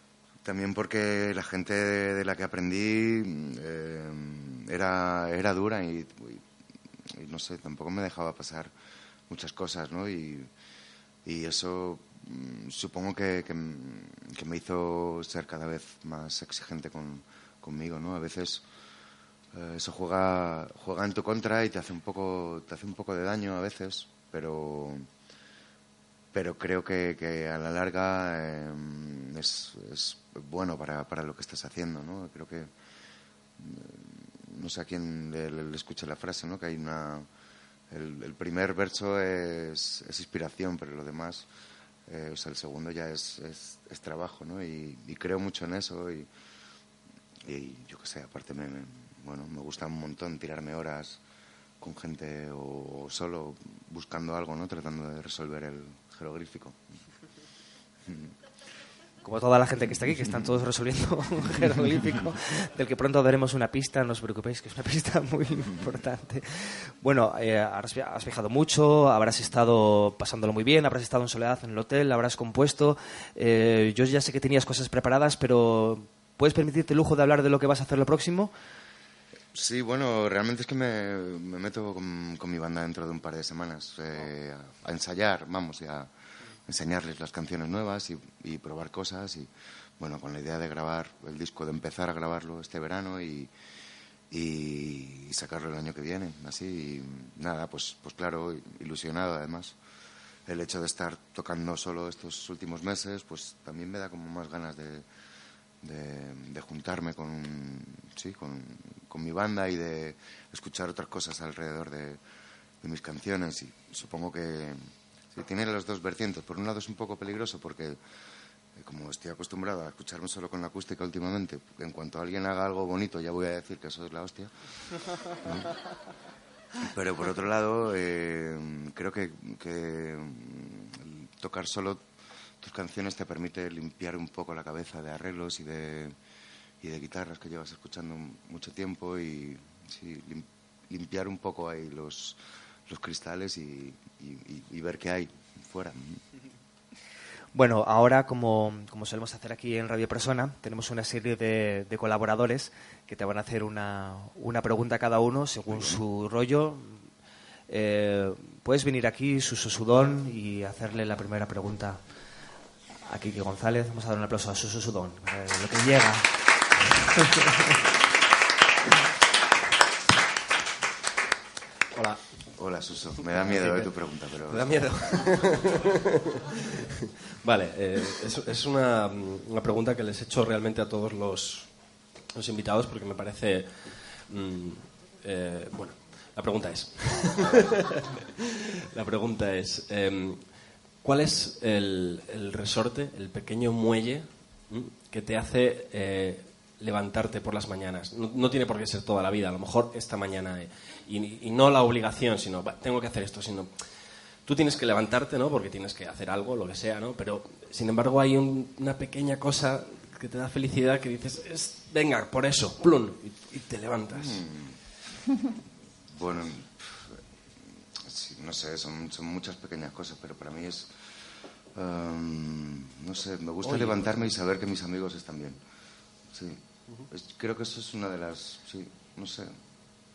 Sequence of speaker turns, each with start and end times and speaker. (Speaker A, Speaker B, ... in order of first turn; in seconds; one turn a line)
Speaker A: 0.4-6.4
Speaker A: 7.1-8.7
Speaker A: 9.3-10.5
Speaker A: 11.2-18.6
Speaker A: 19.5-25.1
Speaker A: 26.3-32.7
Speaker A: 33.6-37.3
Speaker A: 37.9-41.5
Speaker A: 42.1-46.3
Speaker A: 47.4-51.2
Speaker A: 51.8-56.8
Speaker B: 59.2-78.5
Speaker A: 79.5-86.1
Speaker A: 86.7-93.5
Speaker A: 94.3-99.8
Speaker A: 100.5-105.0
Speaker A: 105.8-112.2
Speaker A: 112.8-118.0
Speaker A: 118.8-124.5
Speaker A: 126.8-132.1
Speaker A: 132.6-136.2
Speaker A: 136.8-146.2
Speaker B: 147.5-157.0
Speaker A: 155.7-156.0
Speaker B: 157.7-162.0
Speaker B: 163.1-166.3
Speaker A: 172.6-174.7
Speaker C: 173.2-173.9
Speaker C: 174.5-176.0
Speaker C: 176.6-176.8
Speaker C: 177.4-181.7
Speaker C: 182.3-183.7
Speaker C: 184.3-188.0
Speaker C: 188.5-190.4
Speaker C: 191.0-203.7
Speaker C: 204.4-214.4
Speaker A: 214.1-214.7
Speaker A: 216.1-217.2
Speaker A: 217.9-221.0
Speaker A: 221.7-225.6
Speaker C: 223.6-224.3
Speaker A: 226.3-229.5